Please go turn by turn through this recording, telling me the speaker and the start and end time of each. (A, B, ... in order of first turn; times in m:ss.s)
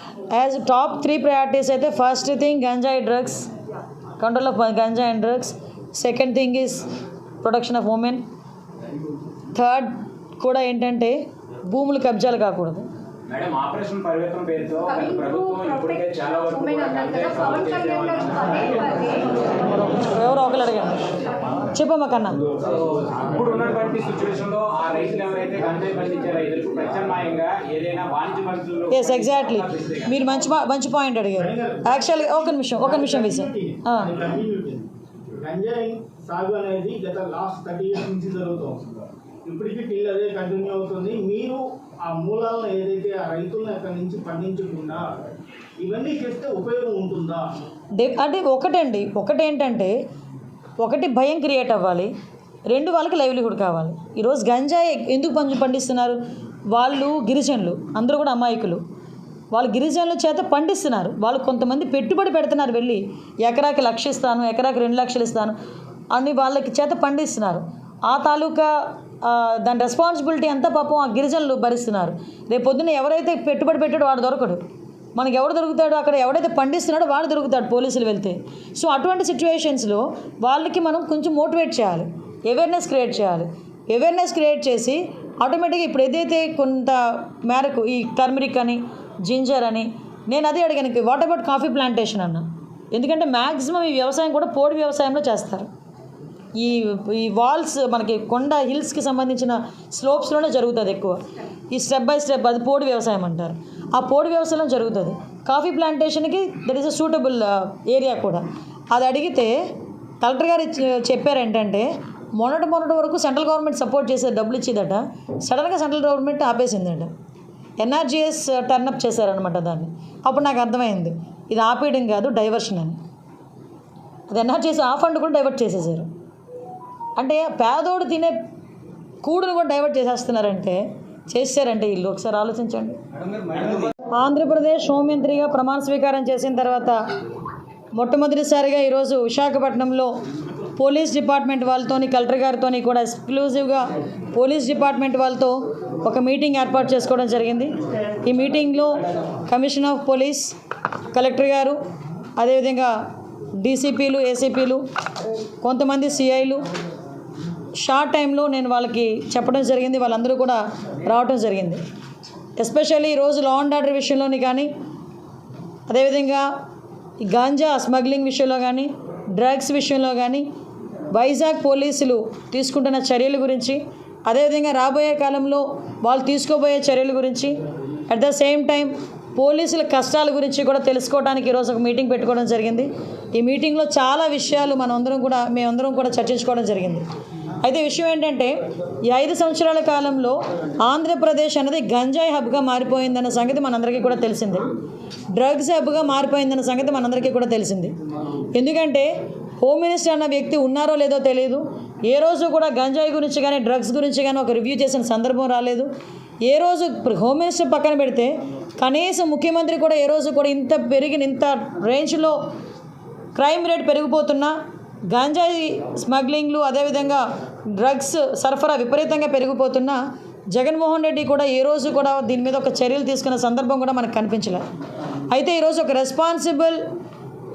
0:00.3-0:03.5 A
0:04.2-0:06.8 A
0:07.4-0:08.2 A
0:09.6-0:09.9 A
0:10.4-0:12.9 A
0:13.3-0:19.4 B
0:19.6-0:21.1 A
0:21.7-0:22.4 A
0:22.7-0:30.1 B
0:28.9-0:34.1 A
0:31.4-0:45.1 C
0:45.8-0:47.5 C
0:48.0-0:49.9 A
0:50.8-0:52.1 A
0:52.7-0:56.2 A
0:56.7-0:58.8 A
0:59.5-1:05.6 A
1:06.1-1:08.7 A
1:09.2-1:14.6 A
1:15.2-1:35.7 A
1:36.6-1:49.6 A
1:50.2-1:57.1 A
1:57.8-2:03.0 A
2:04.3-2:06.1 A
2:07.2-2:08.3 A
2:09.2-2:13.0 A
2:13.3-2:13.9 B
2:14.1-2:17.0 A
2:18.0-2:20.1 A
2:20.8-2:27.7 A
2:28.2-2:30.6 A
2:31.1-2:31.8 A
2:32.4-2:32.9 A
2:33.6-2:34.8 A
2:35.6-2:36.6 A
2:37.8-2:41.8 A
2:42.6-2:44.7 A
2:45.9-2:46.4 A
2:47.2-2:50.4 A
2:51.1-2:57.6 A
2:58.1-3:07.0 A
3:07.6-3:08.5 A
3:09.0-3:14.7 A
3:15.3-3:17.9 A
3:18.5-3:19.1 A
3:19.6-3:25.9 A
3:26.4-3:32.4 A
3:33.3-3:34.5 A
3:35.1-3:40.0 A
3:40.5-3:44.6 A
3:45.3-3:46.8 A